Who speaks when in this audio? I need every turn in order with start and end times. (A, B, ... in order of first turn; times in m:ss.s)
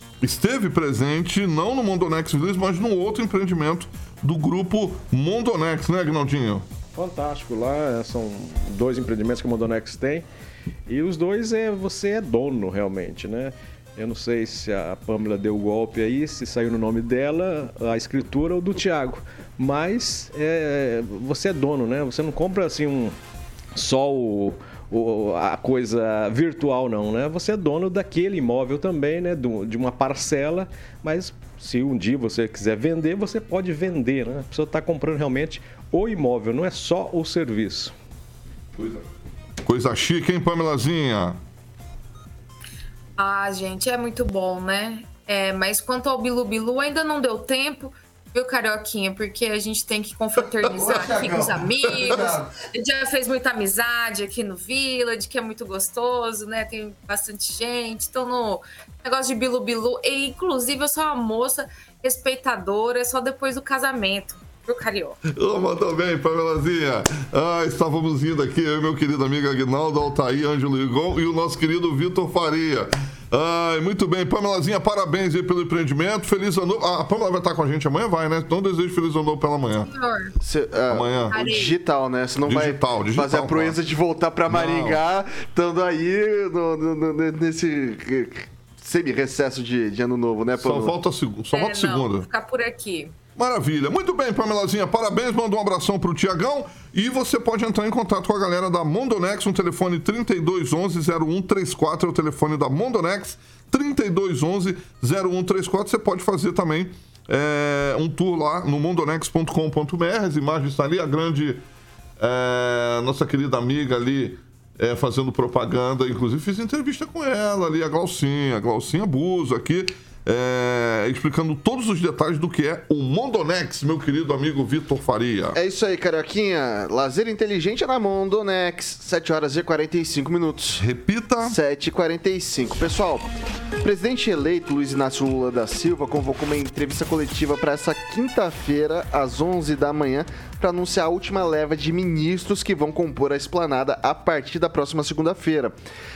0:00.2-0:06.6 A
0:06.9-0:10.2 B
0:10.9-0:23.2 B
0:23.7-0:37.9 B
0:38.8-0:39.0 A
0:39.6-0:41.4 A
0:43.2-1:05.2 C
0:50.7-0:52.5 D
1:05.3-1:19.9 A
1:19.8-1:20.4 C
1:20.4-1:30.9 D
1:20.9-1:21.4 A
1:21.3-1:21.8 C
1:22.4-1:23.7 A
1:24.5-1:25.0 A
1:30.6-1:32.3 A
1:31.5-1:33.2 C
1:33.4-1:51.6 A
1:52.2-2:05.6 A
2:05.5-2:10.8 D
2:10.8-2:11.6 A
2:11.4-2:13.3 D
2:13.8-2:25.7 D